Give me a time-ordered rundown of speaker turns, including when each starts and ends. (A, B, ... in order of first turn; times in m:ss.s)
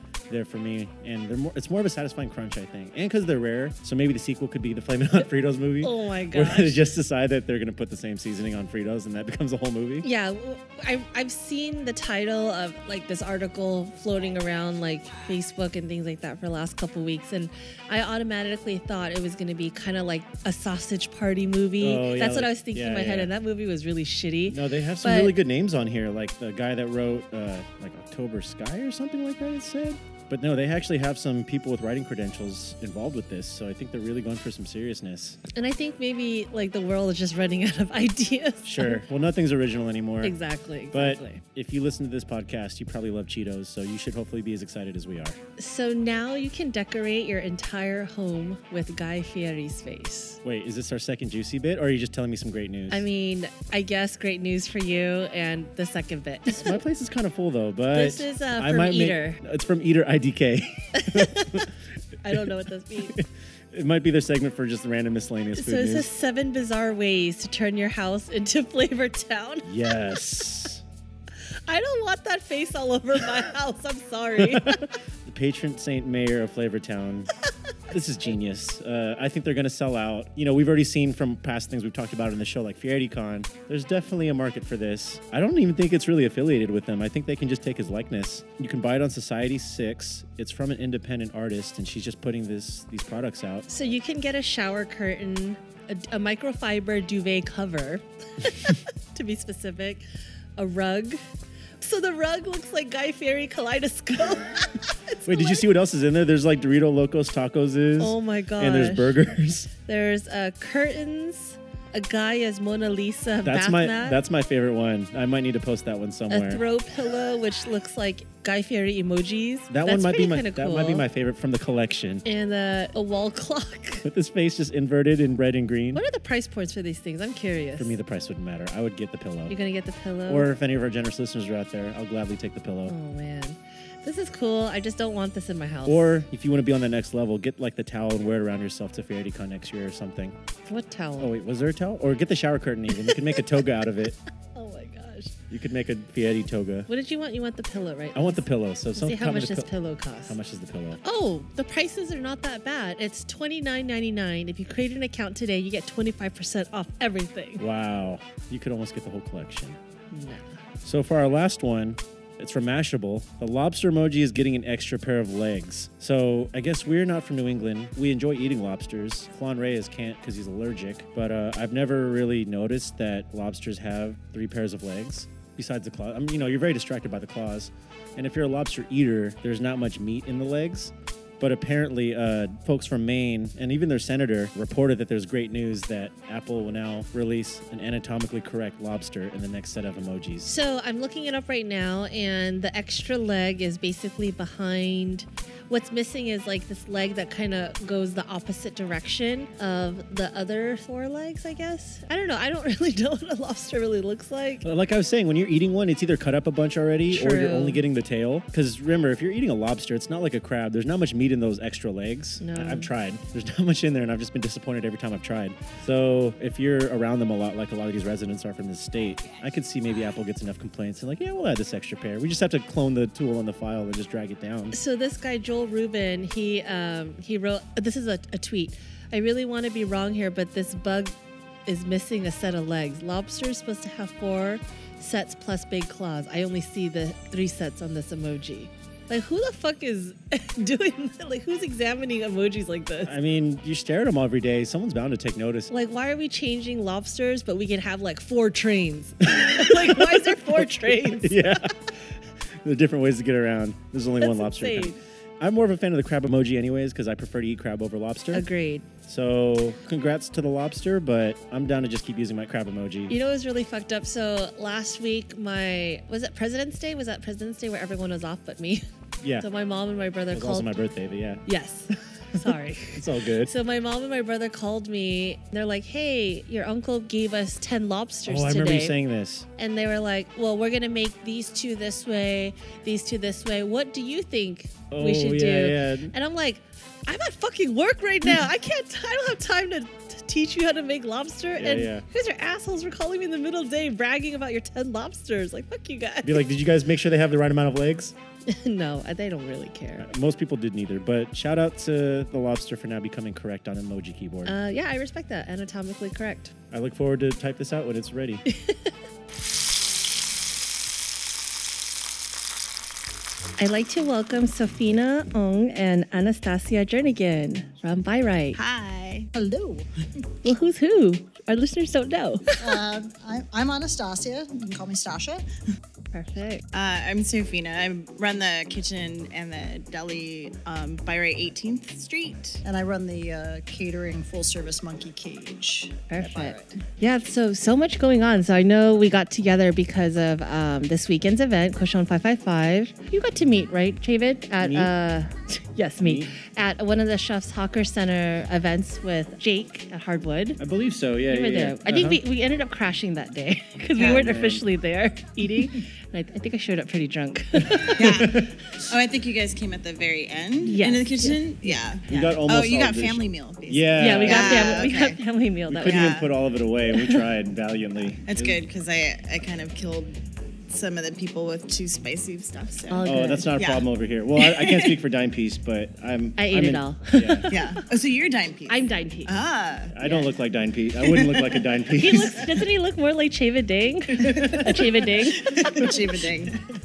0:00.3-0:10.1 A
0:05.8-0:06.8 B
0:10.0-0:25.4 B
0:21.8-0:23.3 A
0:24.5-0:35.4 A
0:35.5-0:39.0 B
0:38.6-0:40.4 A
0:40.2-0:41.4 B
0:40.9-0:45.4 A
0:45.6-0:50.4 B
0:50.4-0:53.0 A
0:52.9-0:56.8 B
0:56.5-1:01.7 A
0:57.9-0:59.4 B
1:01.0-1:01.7 B
1:02.2-1:03.2 B
1:02.3-1:06.1 A
1:05.6-1:09.7 B
1:09.6-1:10.8 A
1:11.7-1:14.9 B
1:14.4-1:17.3 A
1:17.9-1:33.7 A
1:33.7-1:40.0 B
1:40.6-1:41.2 B
1:41.8-1:45.7 B
1:45.2-1:49.7 A
1:48.0-1:49.2 B
1:49.8-1:54.2 B
1:53.4-1:56.6 A
1:56.3-2:01.0 B
1:59.7-2:02.2 A
2:02.2-2:04.1 B
2:04.0-2:06.0 A
2:05.9-2:07.9 B
2:07.8-2:09.6 A
2:09.5-2:10.5 B
2:10.3-2:12.9 A
2:12.9-2:16.1 B
2:15.9-2:20.4 A
2:20.7-2:21.3 B
2:21.2-2:24.2 A
2:23.0-2:23.5 B
2:24.6-2:25.4 B
2:25.5-2:26.9 A
2:26.9-2:30.4 B
2:28.2-2:29.7 A
2:30.3-2:31.0 A
2:31.0-2:37.6 B
2:37.6-2:39.8 A
2:40.1-2:40.5 B
2:40.8-3:10.6 A
3:10.5-3:24.6 B
3:24.6-3:44.8 A
3:27.1-3:27.8 B
3:32.4-3:32.9 B
3:44.7-3:51.2 B
3:51.7-4:03.1 B
4:03.0-4:05.7 A
4:05.7-4:11.6 B
4:09.3-4:18.5 A
4:14.2-4:15.0 B
4:18.3-4:18.9 B
4:19.1-4:23.1 A
4:23.1-4:28.8 B
4:29.2-4:29.5 A
4:29.4-4:30.7 B
4:30.3-4:31.4 A
4:31.5-4:39.0 B
4:32.9-4:33.5 A
4:38.3-4:39.5 A
4:39.6-4:56.4 B
4:44.9-4:46.1 A
4:51.6-4:52.0 A
4:56.2-4:58.1 A
4:58.5-5:00.1 B
5:00.0-5:04.6 A
5:04.4-5:06.5 B
5:06.7-5:08.4 A
5:08.5-5:08.9 B
5:13.6-5:18.6 B
5:18.6-5:19.3 C
5:19.4-5:19.8 D
5:20.4-5:22.8 B
5:22.6-5:25.4 D
5:26.1-5:26.6 B
5:26.7-5:32.6 C
5:32.7-5:36.5 D
5:36.1-5:50.6 B
5:44.6-5:44.9 A
5:46.0-5:46.3 A
5:50.6-5:52.2 A
5:51.3-5:58.3 B
5:54.0-5:54.2 C
5:54.0-5:54.6 A
5:57.8-5:58.6 A
5:57.9-6:05.2 C
6:00.6-6:01.7 B
6:02.1-6:04.9 A
6:04.0-6:06.1 B
6:05.7-6:08.6 A
6:05.9-6:06.3 C
6:08.3-6:15.0 C
6:12.9-6:13.5 B
6:13.0-6:17.5 A
6:16.4-6:17.8 B
6:17.5-6:20.0 C
6:18.7-6:19.3 B
6:19.9-6:22.5 A
6:20.0-6:20.3 B
6:21.0-6:21.6 C
6:21.9-6:26.0 B
6:25.1-6:26.6 C